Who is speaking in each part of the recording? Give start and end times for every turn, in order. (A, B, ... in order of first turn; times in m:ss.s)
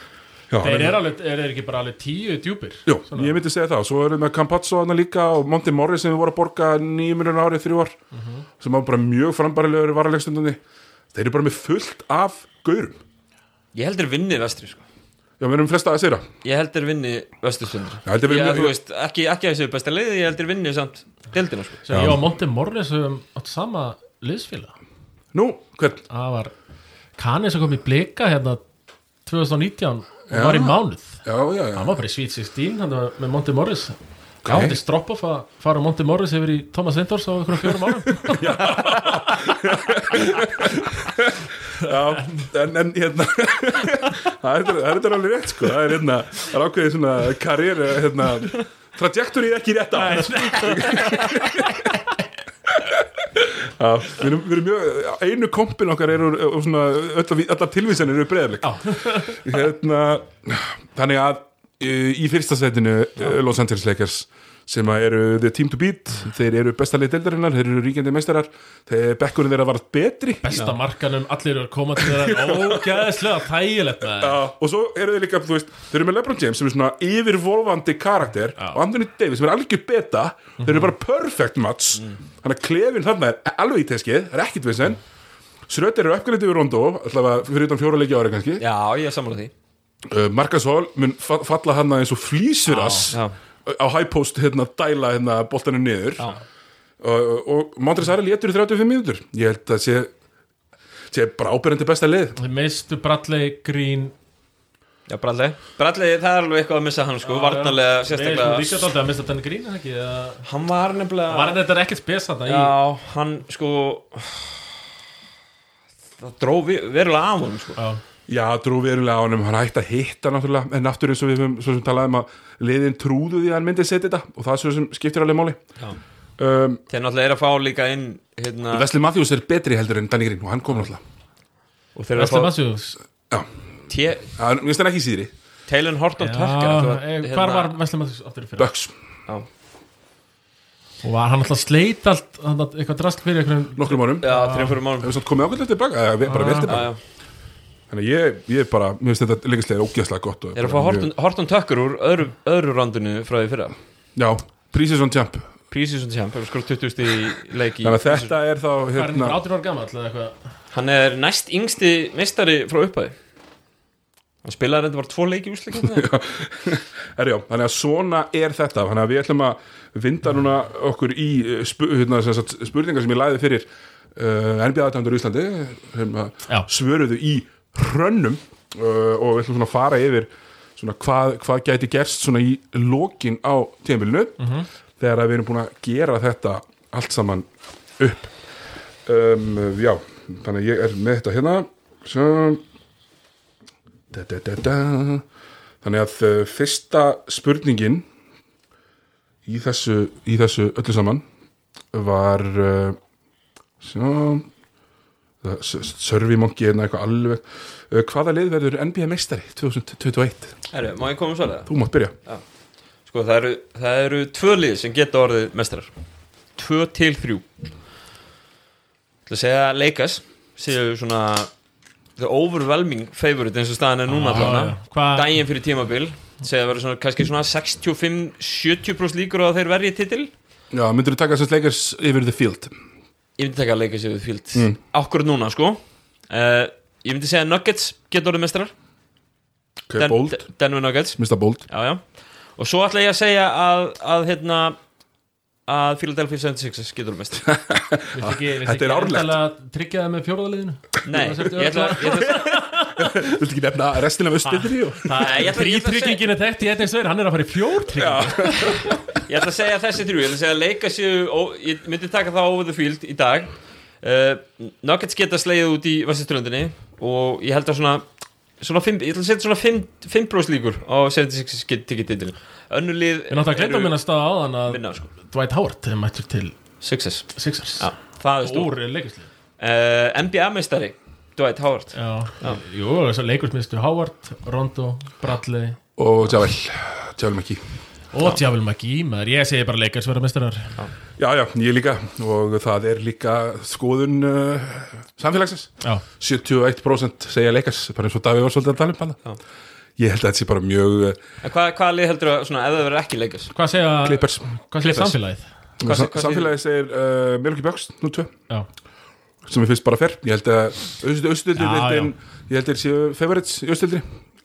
0:00.5-0:01.0 A
0:00.6-0:03.4 B
0:02.9-0:08.0 A
0:08.1-0:08.4 B
0:08.6-0:10.6 A
0:11.1-0:13.0 A
0:13.7-0:14.8 C
0:15.4-0:16.3 A
0:16.4-0:21.8 C
0:18.1-0:18.8 A
0:21.8-0:24.7 B
0:21.9-0:22.3 A
0:25.3-0:26.0 A
0:26.1-0:26.5 B
0:27.2-0:28.6 B
0:29.3-0:31.2 B
0:30.3-0:31.9 A
0:31.8-0:39.6 B
0:34.4-0:34.8 A
0:38.2-0:51.9 A
0:41.8-0:42.5 B
0:49.9-0:51.9 B
0:52.7-1:10.7 A
0:58.6-0:59.4 B
1:10.4-1:14.4 B
1:12.0-1:13.1 A
1:14.2-1:25.0 A
1:20.6-1:20.9 B
1:25.7-1:28.6 A
1:28.6-1:29.5 C
1:30.1-1:36.3 A
1:32.7-1:33.1 B
1:37.0-1:40.1 A
1:41.1-1:42.4 A
1:42.4-1:44.1 B
1:45.1-1:48.9 C
1:47.2-1:50.4 B
1:50.4-1:51.6 C
1:51.3-1:52.7 B
1:52.5-1:54.6 C
1:56.2-1:57.8 C
1:58.3-2:05.6 A
2:06.4-2:06.8 A
2:06.9-2:08.9 C
2:08.7-2:11.0 A
2:12.0-2:12.5 C
2:12.2-2:13.0 B
2:13.9-2:14.3 C
2:14.4-2:15.3 A
2:15.7-2:17.7 C
2:16.2-2:18.7 B
2:18.6-2:18.9 A
2:21.0-2:24.8 B
2:23.8-2:24.3 A
2:24.2-2:25.1 C
2:25.0-2:26.9 A
2:26.2-2:26.9 B
2:26.7-2:27.0 C
2:27.9-2:31.1 A
2:30.6-2:33.8 C
2:34.2-2:35.5 A
2:35.7-2:38.3 C
2:37.8-2:39.4 A
2:39.0-2:40.4 B
2:40.7-2:43.2 C
2:44.4-2:46.1 C
2:45.8-3:04.4 A
3:04.4-3:04.7 B
3:05.0-3:08.3 A
3:09.0-3:12.6 A
3:14.1-3:15.2 A
3:15.8-3:18.1 A
3:19.5-3:21.2 A
3:21.9-3:23.0 A
3:23.8-3:24.5 A
3:25.4-3:30.6 A
3:30.7-3:31.7 C
3:31.7-3:32.1 A
3:33.1-3:35.9 C
3:36.6-3:37.5 C
3:39.3-3:41.5 C
3:42.2-3:50.3 C
3:44.1-3:45.4 B
3:50.7-3:52.7 A
3:53.4-3:58.7 C
3:59.9-4:00.5 A
4:00.0-4:02.0 C
4:01.2-4:01.6 A
4:02.6-4:04.8 C
4:05.7-4:07.5 C
4:07.4-4:09.4 A
4:08.1-4:13.2 B
4:11.1-4:12.6 C
4:13.0-4:15.3 A
4:14.4-4:19.0 B
4:15.2-4:16.2 C
4:17.9-4:19.0 A
4:19.2-4:28.0 C
4:28.6-4:34.0 C
4:33.3-4:36.6 B
4:34.7-4:35.1 C
4:36.8-4:38.8 C
4:37.4-4:37.9 B
4:38.4-4:39.3 B
4:39.6-4:42.6 C
4:42.0-4:45.8 B
4:46.0-4:47.6 A
4:48.1-4:50.7 B
4:51.2-4:59.2 A
5:00.0-5:01.2 A
5:01.4-5:03.5 C
5:03.5-5:05.5 B
5:04.0-5:05.1 A
5:05.8-5:08.3 A
5:05.8-5:06.5 C
5:09.4-5:14.0 A
5:11.6-5:12.1 B